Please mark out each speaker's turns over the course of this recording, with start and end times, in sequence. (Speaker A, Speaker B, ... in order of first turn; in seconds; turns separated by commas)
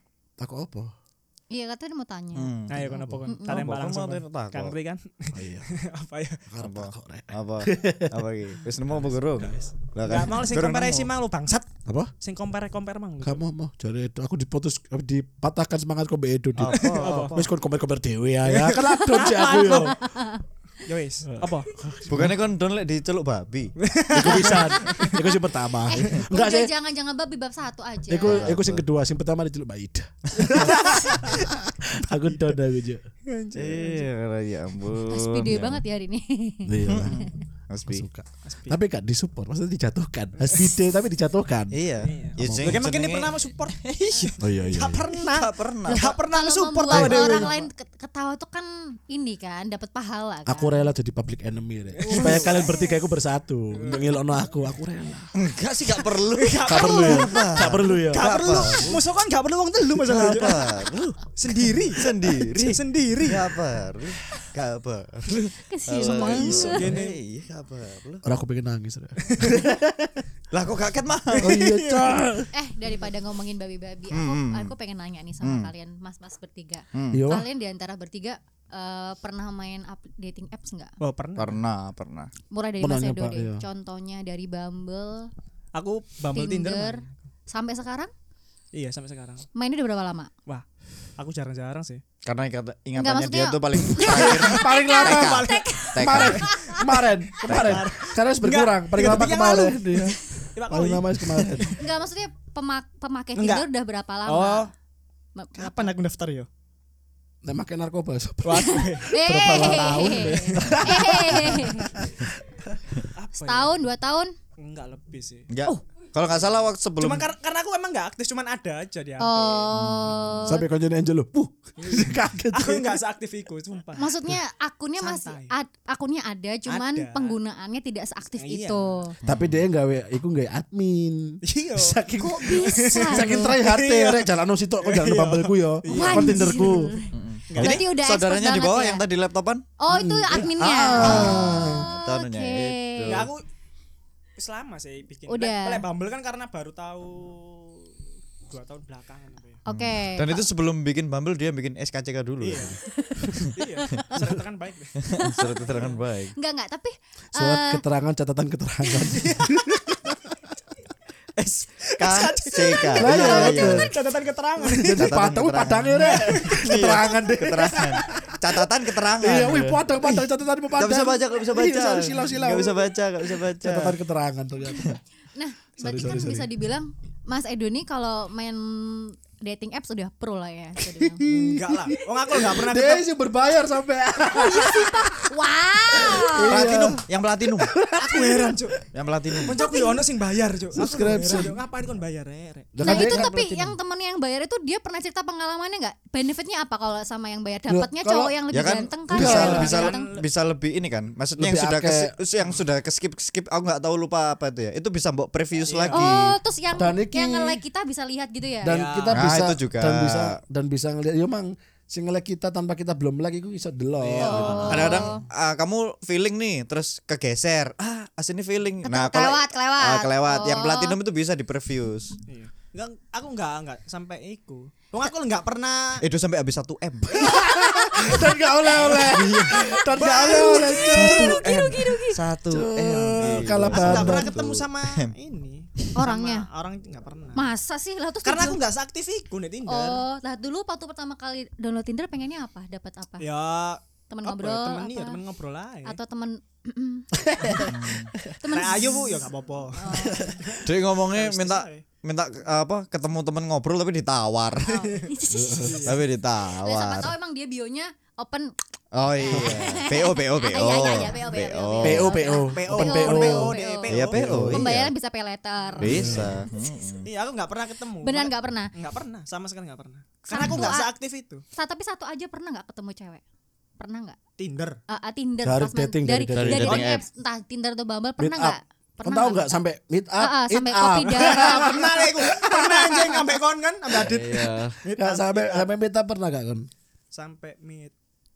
Speaker A: 0.4-0.9, Speaker B: 1.5-2.5, Speaker C: 2.3-2.9, Speaker D: 2.7-6.4, Speaker A: 2.8-3.2, Speaker B: 3.3-3.7, Speaker C: 3.5-4.7, Speaker A: 5.3-5.7, Speaker A: 6.5-8.2, Speaker C: 6.6-11.1, Speaker A: 9.3-9.7, Speaker D: 10.0-11.7, Speaker A: 11.8-12.1, Speaker D: 12.2-13.4, Speaker A: 13.2-19.9, Speaker C: 16.6-17.3, Speaker D: 16.7-17.5, Speaker D: 18.4-20.0, Speaker B: 19.1-20.4, Speaker D: 20.9-21.7, Speaker A: 21.3-22.4, Speaker C: 22.1-24.6, Speaker D: 23.8-25.2, Speaker A: 24.1-26.7, Speaker B: 24.9-25.2, Speaker B: 25.9-28.5, Speaker A: 28.1-33.0, Speaker C: 28.2-28.8, Speaker D: 33.3-34.1, Speaker C: 33.5-35.8, Speaker B: 35.1-37.3, Speaker A: 36.6-37.3, Speaker C: 36.9-38.0, Speaker A: 37.9-41.8, Speaker D: 38.4-38.8, Speaker C: 41.7-44.3, Speaker D: 42.0-47.5, Speaker A: 42.4-42.9, Speaker A: 44.4-45.1, Speaker C: 45.2-46.2, Speaker B: 46.2-50.9, Speaker A: 46.9-47.5, Speaker A: 50.5-55.3, Speaker D: 52.0-52.7, Speaker B: 52.1-52.9, Speaker D: 53.7-54.2, Speaker C: 55.3-59.0, Speaker D: 56.0-63.6, Speaker A: 56.6-58.3, Speaker C: 60.0-61.2, Speaker C: 61.7-68.2, Speaker B: 65.4-66.9, Speaker D: 66.0-67.2, Speaker A: 68.2-70.2, Speaker D: 69.2-69.5, Speaker C: 70.5-71.5, Speaker D: 71.3-72.2, Speaker A: 71.4-72.5, Speaker B: 72.5-80.9, Speaker C: 74.1-74.7, Speaker C: 75.4-75.7, Speaker C: 76.9-77.2, Speaker A: 77.1-77.5, Speaker D: 81.0-81.6, Speaker C: 81.4-82.3, Speaker B: 82.5-85.3, Speaker A: 82.8-83.6, Speaker D: 85.7-87.1, Speaker B: 86.3-88.1, Speaker D: 88.7-89.4, Speaker B: 89.5-90.3, Speaker D: 91.2-92.0, Speaker C: 92.2-96.5, Speaker B: 93.0-96.9, Speaker D: 94.0-95.9, Speaker A: 94.1-101.8, Speaker D: 96.8-101.7, Speaker C: 97.4-97.8, Speaker B: 101.7-104.7, Speaker D: 103.3-103.7, Speaker D: 104.2-104.7, Speaker B: 105.3-105.9, Speaker D: 105.6-106.5, Speaker A: 107.4-112.8, Speaker D: 108.4-111.4, Speaker B: 109.0-112.0, Speaker D: 113.1-113.7, Speaker B: 113.4-114.3, Speaker D: 114.6-115.5, Speaker C: 115.5-117.3, Speaker D: 117.0-119.8, Speaker B: 119.2-120.7, Speaker C: 119.7-120.4, Speaker A: 120.4-123.0, Speaker D: 121.8-124.1, Speaker B: 124.0-129.1, Speaker D: 125.0-125.5, Speaker D: 126.7-127.4, Speaker D: 128.4-129.0, Speaker A: 129.2-136.9, Speaker C: 129.2-129.6, Speaker D: 131.4-136.7, Speaker B: 132.2-133.5, Speaker B: 135.9-139.0, Speaker C: 137.1-139.7, Speaker D: 137.5-137.8, Speaker B: 139.8-143.3, Speaker A: 139.9-141.9, Speaker C: 140.9-143.3, Speaker D: 143.1-143.4, Speaker D: 144.4-149.6, Speaker B: 145.3-145.8, Speaker B: 149.7-150.4, Speaker C: 149.7-153.5, Speaker D: 152.4-152.8, Speaker B: 153.0-153.3, Speaker D: 153.4-155.0, Speaker C: 155.0-156.3, Speaker B: 155.2-155.6, Speaker D: 155.7-156.0, Speaker B: 156.3-157.8, Speaker A: 157.3-160.2, Speaker D: 159.1-159.7, Speaker C: 161.4-163.9, Speaker D: 161.8-165.2, Speaker A: 163.0-163.9, Speaker B: 163.1-163.6, Speaker A: 164.6-168.3, Speaker C: 164.9-173.9, Speaker D: 166.0-166.7, Speaker A: 169.2-175.0, Speaker B: 175.3-181.2, Speaker A: 175.8-176.5, Speaker A: 180.8-185.2, Speaker D: 181.2-183.1, Speaker B: 184.3-186.5, Speaker A: 185.9-187.0, Speaker C: 186.4-187.7, Speaker A: 187.5-188.7, Speaker D: 187.9-188.8, Speaker C: 188.9-189.6, Speaker D: 189.4-193.1, Speaker B: 189.5-190.0, Speaker A: 190.7-191.6, Speaker A: 192.7-193.8, Speaker B: 192.8-200.1, Speaker A: 197.7-198.4, Speaker C: 198.5-206.3, Speaker A: 199.1-199.8, Speaker D: 199.2-200.2, Speaker A: 201.4-202.1, Speaker D: 205.7-206.0, Speaker B: 205.9-208.8, Speaker A: 206.8-207.6, Speaker A: 208.6-215.1, Speaker D: 208.6-209.3, Speaker C: 209.1-210.4, Speaker D: 214.0-215.0, Speaker B: 214.2-215.2, Speaker C: 214.6-222.2, Speaker B: 218.8-221.0, Speaker D: 222.3-226.0, Speaker C: 226.0-227.4, Speaker A: 227.2-231.4, Speaker C: 228.8-229.7, Speaker D: 229.9-231.2, Speaker B: 230.2-232.2, Speaker C: 230.9-235.1, Speaker A: 232.5-234.5, Speaker D: 233.2-237.5, Speaker B: 235.9-236.5, Speaker B: 237.3-238.6, Speaker D: 238.2-240.0, Speaker B: 239.7-243.2, Speaker D: 243.2-246.0, Speaker B: 244.1-245.2, Speaker B: 245.8-247.7, Speaker A: 247.2-248.3, Speaker C: 247.7-248.1, Speaker B: 248.4-250.4, Speaker D: 248.5-251.8, Speaker A: 249.9-250.5, Speaker C: 250.6-254.8, Speaker B: 254.7-255.7, Speaker A: 255.3-255.9, Speaker D: 255.6-256.0, Speaker C: 255.8-257.1, Speaker B: 256.6-258.5, Speaker C: 258.9-262.2, Speaker B: 259.2-263.9, Speaker A: 261.8-263.6, Speaker D: 262.4-264.3, Speaker C: 263.9-264.9, Speaker A: 264.1-264.7, Speaker B: 264.5-266.6, Speaker D: 265.8-266.1, Speaker A: 265.8-266.4, Speaker C: 265.8-267.1, Speaker D: 267.0-271.4, Speaker B: 268.0-268.7, Speaker B: 270.3-270.9, Speaker B: 271.6-273.2, Speaker B: 273.8-274.2, Speaker D: 274.4-274.8, Speaker B: 274.9-279.5, Speaker A: 275.4-276.8, Speaker C: 276.3-277.0, Speaker D: 276.6-277.0, Speaker A: 278.2-283.3, Speaker B: 280.2-281.8, Speaker D: 281.1-285.7, Speaker C: 283.9-284.8, Speaker A: 285.0-286.7, Speaker D: 287.1-287.9